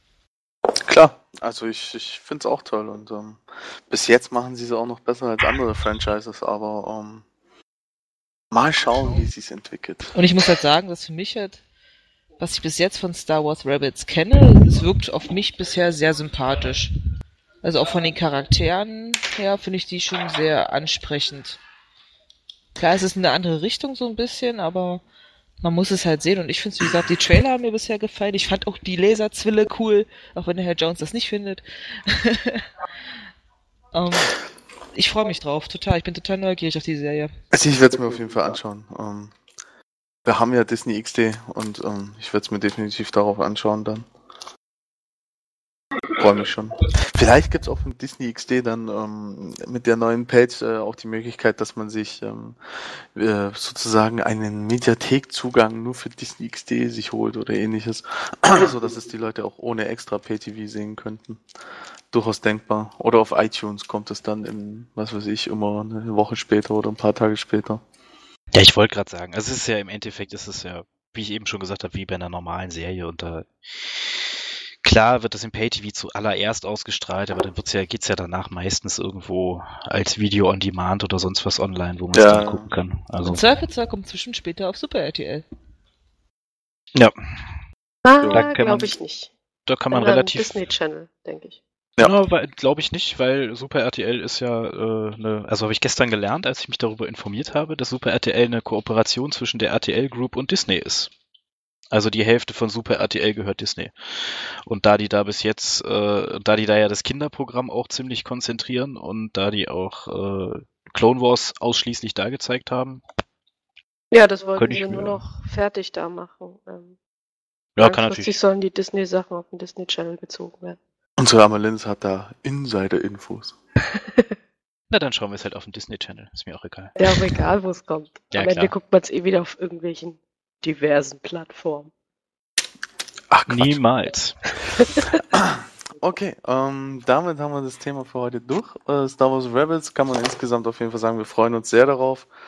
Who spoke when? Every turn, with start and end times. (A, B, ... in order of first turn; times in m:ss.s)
0:00.8-0:07.2 A
0:08.5-0:10.1 A
0:10.1-0:11.6 B
0:12.4-0:16.9 B
0:17.6-0:21.6 B
0:22.8-0:25.0 B
0:25.6-0:32.6 B
0:33.9-0:34.4 B
0:34.9-0:37.3 B
0:37.5-0:39.3 A
0:40.2-0:44.1 A
0:46.2-1:01.4 A
1:02.1-1:07.8 A
1:08.5-1:23.4 C
1:22.1-1:22.7 A
1:23.2-1:25.4 B
1:28.0-1:29.3 D
1:28.2-1:28.4 A
1:28.3-1:28.9 C
1:29.7-1:30.7 C
1:29.9-1:31.6 D
1:32.0-1:41.1 C
1:41.9-1:53.0 C
1:54.1-1:57.0 D
1:54.6-1:55.2 C
1:57.8-1:58.3 C
1:57.8-2:00.8 D
2:01.2-2:03.6 A
2:03.9-2:04.3 D
2:04.9-2:07.0 C
2:07.0-2:11.9 D
2:08.3-2:08.7 C
2:13.3-2:13.8 A
2:13.5-2:14.3 C
2:14.8-2:15.1 D
2:15.3-2:22.3 A